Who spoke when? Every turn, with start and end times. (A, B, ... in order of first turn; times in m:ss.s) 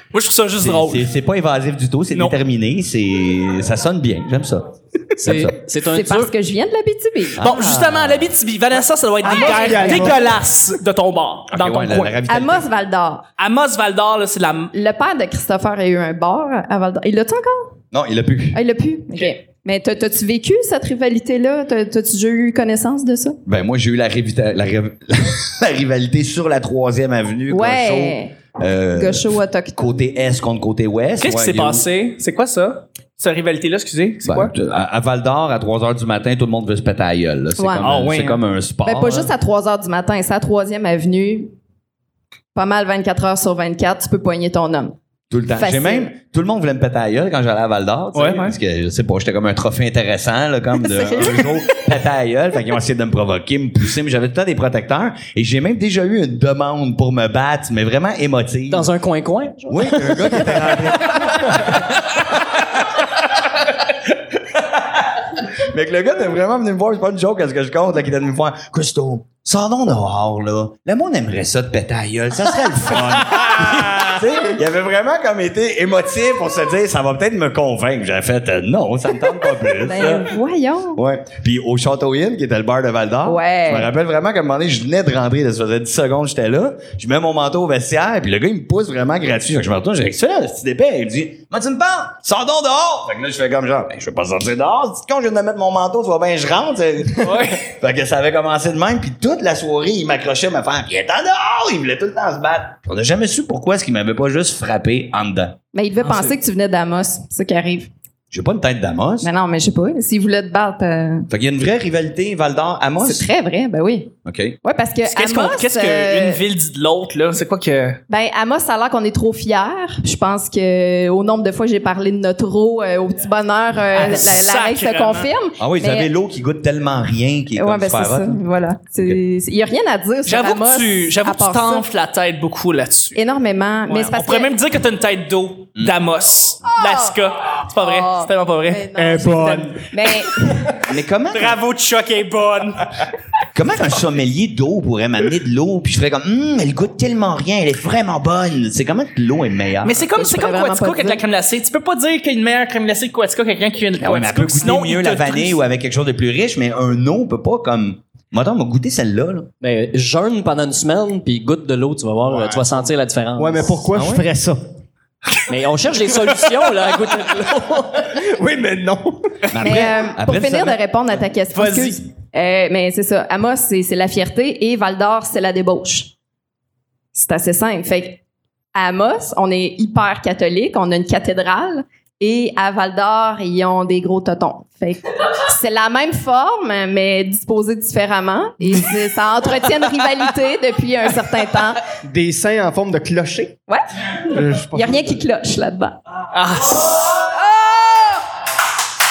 0:00.1-0:01.1 A
0:00.6-0:05.6 B
0:05.2-0:06.3 C
0:05.8-0:07.4 D
0:07.4-0:08.3 B
0:07.4-0:12.2 A
0:09.2-0:10.2 E
0:09.2-0:10.1 D
0:11.5-0:12.7 B
0:12.3-0:13.2 D
0:13.4-0:14.7 A
0:14.7-0:17.7 D
0:17.9-0:18.6 B
0:18.5-0:23.4 D
0:23.4-0:31.8 B
0:27.5-0:28.3 D
0:28.9-0:30.0 D
0:31.2-0:34.5 A
0:34.2-0:39.3 B
0:37.6-0:37.9 D
0:37.8-0:38.4 A
0:38.8-0:41.5 D
0:42.5-0:45.0 D
0:45.3-0:58.9 B
0:45.5-0:46.1 D
0:48.1-0:48.6 A
0:58.7-1:00.8 C
0:59.7-1:02.6 B
1:04.5-1:20.3 B
1:19.6-1:21.0 D
1:20.9-1:45.6 B
1:23.2-1:23.9 D
1:37.2-1:37.6 A
1:45.7-1:47.9 D
1:48.3-1:49.3 B
1:49.2-1:51.3 D
1:51.3-1:53.3 B
1:53.0-1:56.4 D
1:54.2-1:54.6 B
1:55.1-1:58.0 A
1:58.1-2:06.1 D
2:03.9-2:05.3 A
2:05.6-2:08.4 B
2:07.5-2:11.8 D
2:10.2-2:13.2 A
2:13.1-2:14.5 D
2:13.9-2:20.8 A
2:16.7-2:17.1 D
2:17.8-2:20.8 D
2:19.0-2:19.9 E
2:20.8-2:21.6 B
2:21.3-2:23.0 A
2:23.5-2:30.0 B
2:29.8-2:35.6 A
2:30.1-2:31.2 D
2:34.0-2:39.5 B
2:39.6-2:43.8 C
2:43.4-2:44.6 E
2:43.9-2:44.2 B
2:45.5-2:48.2 C
2:48.1-2:49.4 E
2:49.5-2:50.8 B
2:49.6-2:56.1 D
2:51.5-2:52.0 A
2:57.1-2:58.2 D
2:58.7-3:11.9 D
3:12.0-3:13.6 E
3:13.7-3:16.0 D
3:14.3-3:15.2 E
3:16.3-3:17.4 A
3:17.5-3:18.2 D